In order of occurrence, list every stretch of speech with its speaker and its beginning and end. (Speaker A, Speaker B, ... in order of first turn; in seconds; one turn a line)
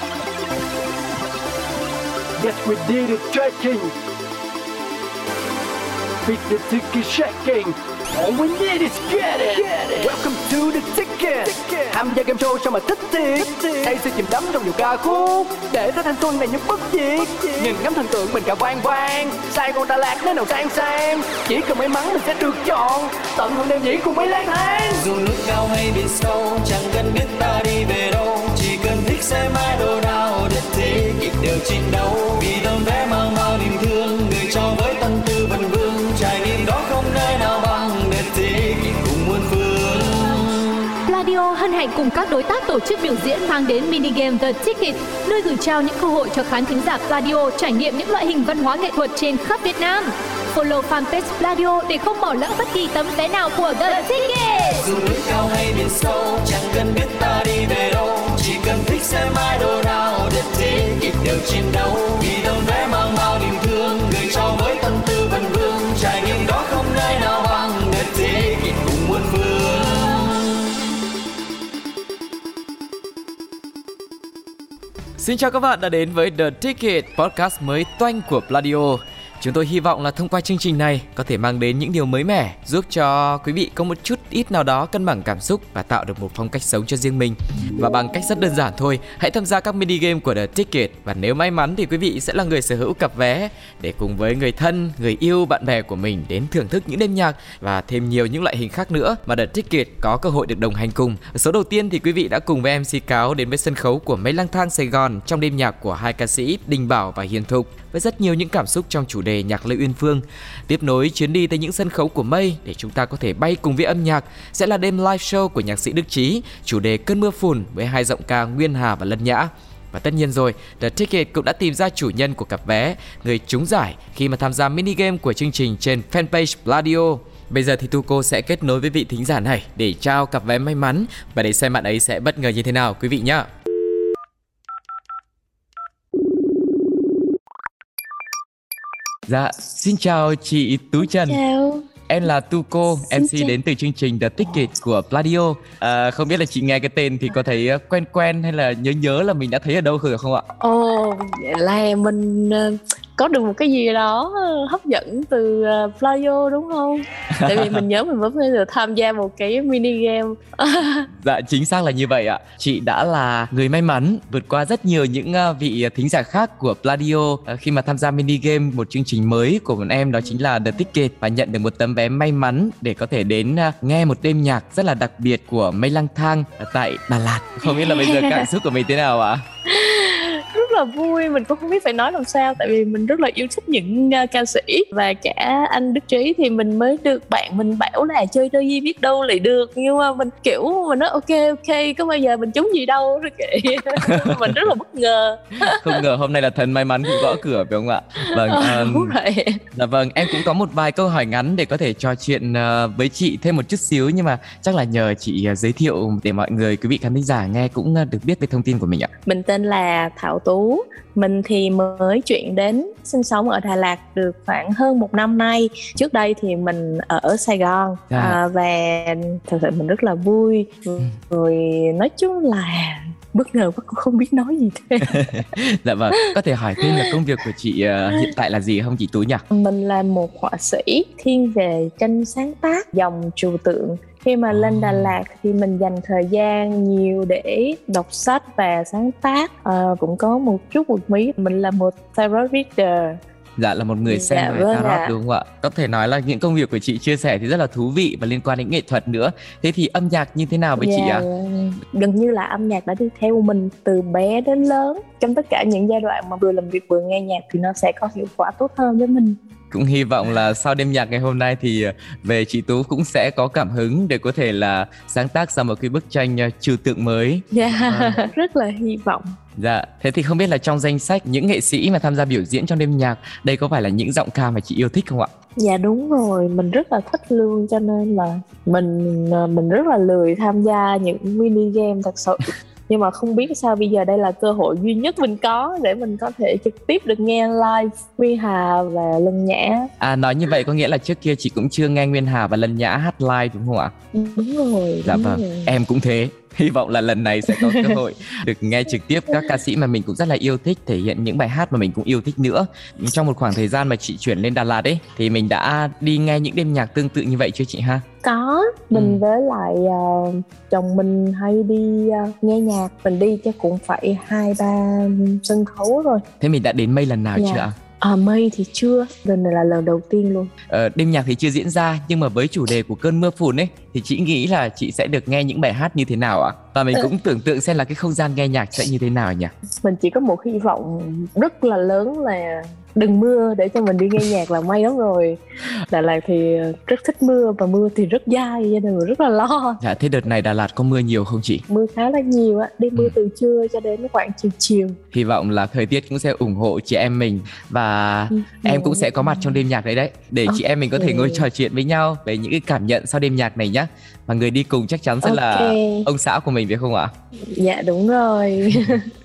Speaker A: 2.4-3.9
Speaker A: 6.2-25.0
Speaker B: 24.9-40.7
Speaker C: 41.0-54.8
Speaker B: 54.8-70.5
Speaker D: 75.2-133.5
Speaker D: 139.3-141.4
Speaker E: 141.1-141.8
Speaker D: 142.1-150.4
Speaker E: 143.1-143.5
Speaker E: 150.6-161.1
Speaker D: 157.3-157.8
Speaker D: 161.1-179.4
Speaker E: 177.6-178.5
Speaker E: 179.7-196.0
Speaker D: 194.0-194.6
Speaker D: 195.6-199.1
Speaker E: 198.2-199.6
Speaker D: 199.7-209.1
Speaker E: 209.2-225.2
Speaker D: 218.1-218.4
Speaker D: 225.0-229.4
Speaker E: 229.5-243.2
Speaker D: 234.5-235.1
Speaker D: 243.6-251.2
Speaker E: 244.1-245.1
Speaker E: 250.8-259.4
Speaker D: 259.7-268.2
Speaker E: 267.5-269.2
Speaker D: 269.6-275.3
Speaker E: 275.6-289.9
Speaker D: 290.0-293.9
Speaker E: 294.1-295.7
Speaker D: 295.0-308.0
Speaker E: 297.5-298.0
Speaker E: 308.2-316.2
Speaker D: 308.9-309.2
Speaker D: 316.4-317.7
Speaker E: 317.4-320.5
Speaker D: 320.7-329.5
Speaker E: 329.8-339.8
Speaker D: 339.8-341.6
Speaker E: 341.7-345.0
Speaker D: 345.1-357.1
Speaker E: 348.4-349.6
Speaker E: 350.5-351.4
Speaker E: 355.2-356.1
Speaker E: 357.5-359.1